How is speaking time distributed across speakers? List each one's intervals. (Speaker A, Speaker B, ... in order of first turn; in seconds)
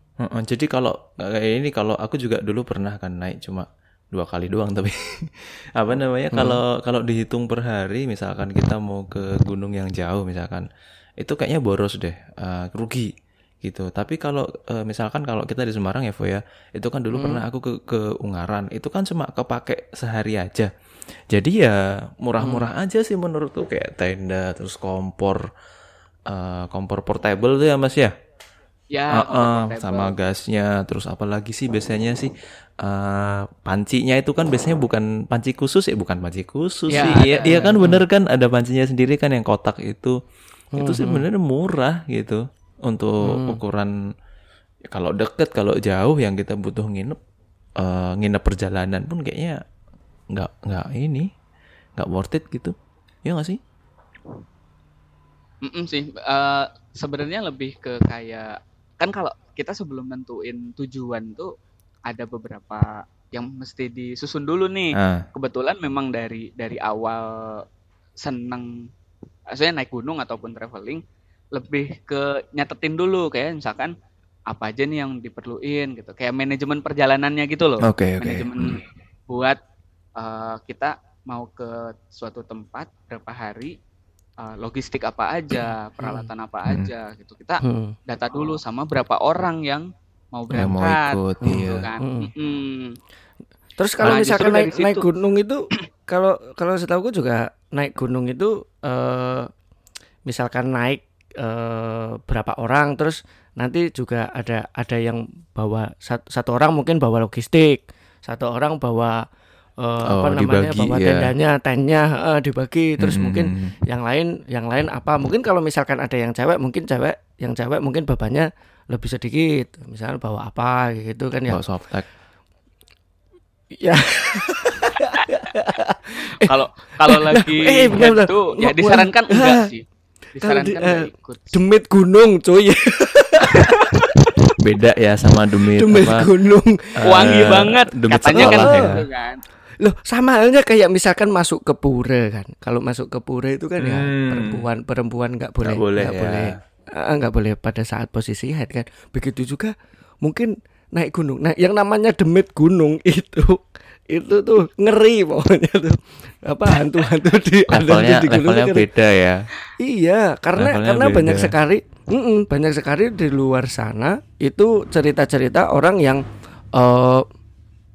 Speaker A: 0.2-10.7, 11.2-13.1, 13.6-20.7, 21.3-25.4, 26.3-28.1, 29.1-32.3, 32.8-40.2, 40.8-43.9, 44.9-47.2, 47.8-49.6, 50.3-51.3, 52.0-52.7, 53.2-53.6, 64.9-65.2, 77.8-78.8, 90.5-91.9, 110.1-111.3, 113.0-113.8, 121.5-122.1, 134.6-136.3, 137.0-139.0, 143.8-144.6, 145.6-146.6, 157.7-159.5, 160.6-161.6
Speaker B: 6.3-6.6, 17.1-17.4, 22.4-22.7, 37.4-38.0, 40.8-41.2, 43.2-43.6, 85.5-86.3, 87.6-88.0, 91.4-92.3, 93.8-99.5, 100.2-109.2, 109.8-121.6, 123.7-126.5, 127.0-129.7, 130.4-133.8, 135.7-137.6, 138.3-139.0, 139.8-158.9, 159.8-166.2, 166.8-167.2
Speaker C: 28.9-30.1, 36.9-37.5, 55.6-61.5, 62.1-67.6, 68.2-68.9, 69.5-71.0, 71.5-73.9, 74.5-79.6, 80.2-83.8, 84.4-93.0, 94.0-95.0, 126.4-129.8, 130.4-131.6, 133.4-134.2, 137.0-139.4